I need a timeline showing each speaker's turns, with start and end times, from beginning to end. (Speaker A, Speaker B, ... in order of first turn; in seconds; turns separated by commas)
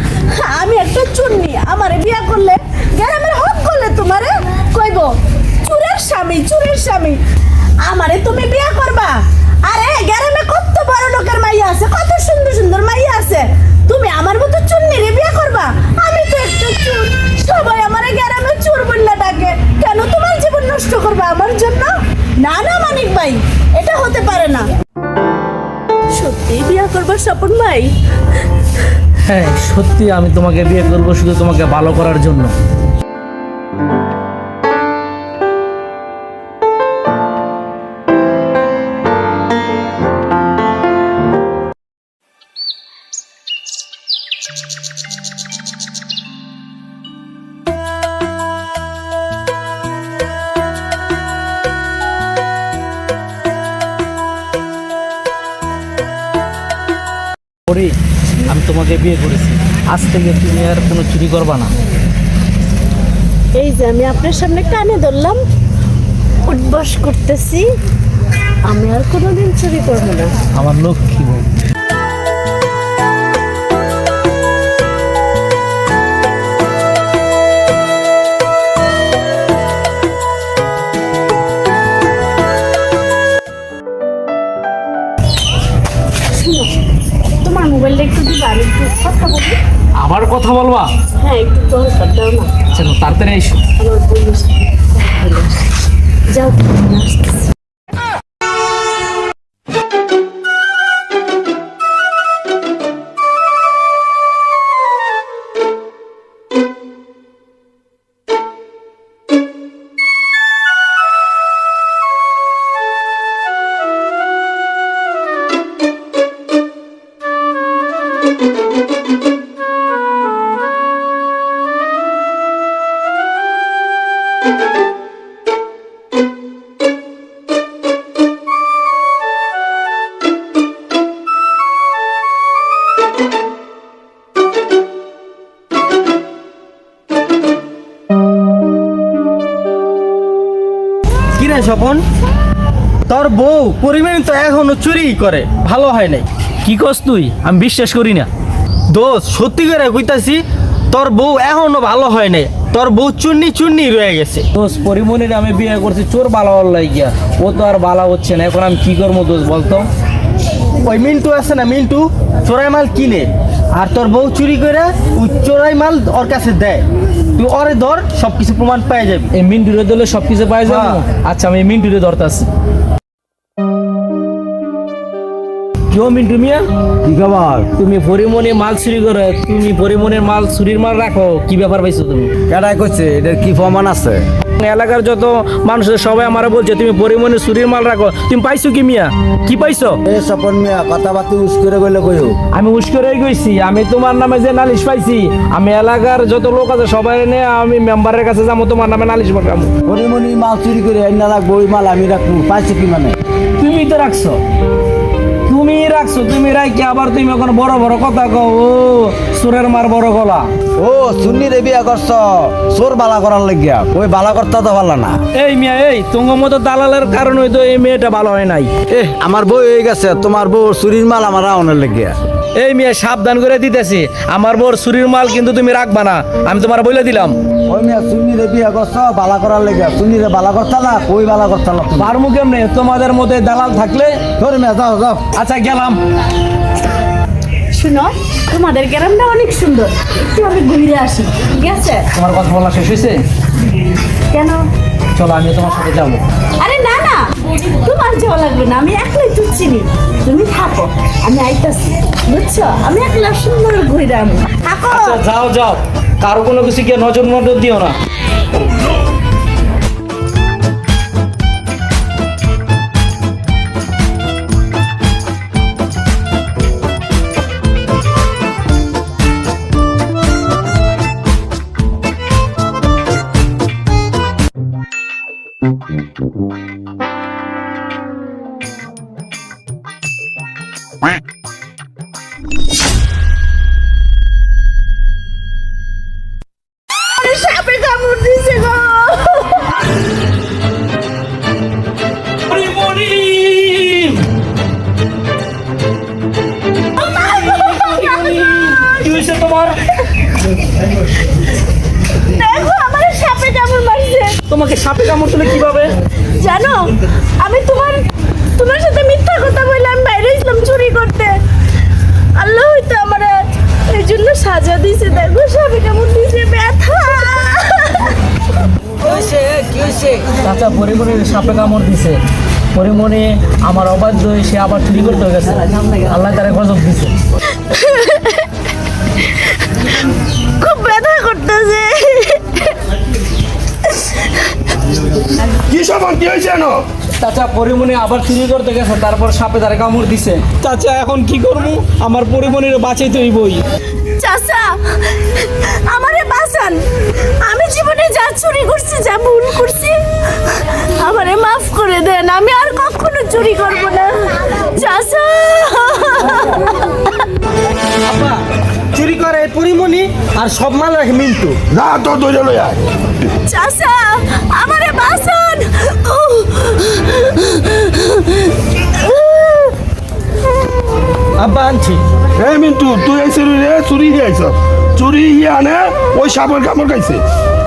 Speaker A: 0.3-7.2, Speaker A: 7.8-24.7, Speaker A: 26.1-27.9, Speaker B: 29.2-32.5, Speaker B: 57.7-57.9, Speaker B: 58.5-61.7, Speaker A: 63.5-65.4, Speaker A: 66.4-67.7, Speaker A: 68.7-70.3, Speaker B: 70.5-71.5, Speaker A: 86.3-86.7, Speaker A: 87.4-89.6, Speaker B: 90.0-90.9, Speaker A: 91.2-92.5, Speaker B: 92.7-93.6, Speaker A: 93.8-95.7, Speaker A: 96.3-97.5, Speaker C: 141.3-142.0, Speaker C: 143.1-146.3, Speaker B: 146.6-148.3, Speaker C: 148.9-154.5, Speaker B: 154.5-159.9, Speaker C: 160.8-169.3, Speaker B: 169.3-172.5, Speaker C: 170.7-171.0, Speaker B: 175.9-176.7, Speaker D: 177.0-177.7, Speaker B: 177.8-182.3, Speaker D: 182.5-184.2, Speaker B: 184.6-190.0, Speaker D: 190.0-192.3, Speaker B: 192.5-199.7, Speaker D: 199.8-203.2, Speaker B: 203.6-204.4, Speaker B: 205.5-210.5, Speaker D: 210.8-215.2, Speaker B: 215.3-218.8, Speaker D: 218.9-222.2, Speaker B: 222.5-227.3, Speaker D: 227.7-232.1, Speaker B: 232.0-234.1, Speaker D: 234.4-235.2, Speaker B: 235.3-236.0, Speaker A: 237.7-242.1, Speaker B: 242.1-243.2, Speaker A: 244.3-244.6, Speaker B: 245.1-246.2, Speaker A: 246.6-255.2, Speaker B: 254.9-257.9, Speaker A: 287.1-289.7, Speaker B: 292.5-294.2, Speaker A: 297.0-299.0, Speaker B: 297.0-299.8, Speaker A: 302.1-304.4, Speaker B: 304.5-305.9, Speaker A: 306.4-308.0, Speaker A: 308.6-311.4, Speaker A: 312.4-318.2, Speaker B: 319.0-322.2, Speaker B: 322.7-327.1, Speaker A: 327.5-328.5, Speaker A: 330.6-332.8, Speaker E: 335.7-336.8, Speaker B: 337.2-343.6, Speaker A: 344.2-346.8, Speaker A: 347.4-357.2, Speaker C: 358.0-358.4, Speaker C: 358.9-361.6, Speaker E: 361.7-362.8, Speaker A: 363.4-369.7, Speaker C: 371.4-372.0, Speaker E: 372.3-377.2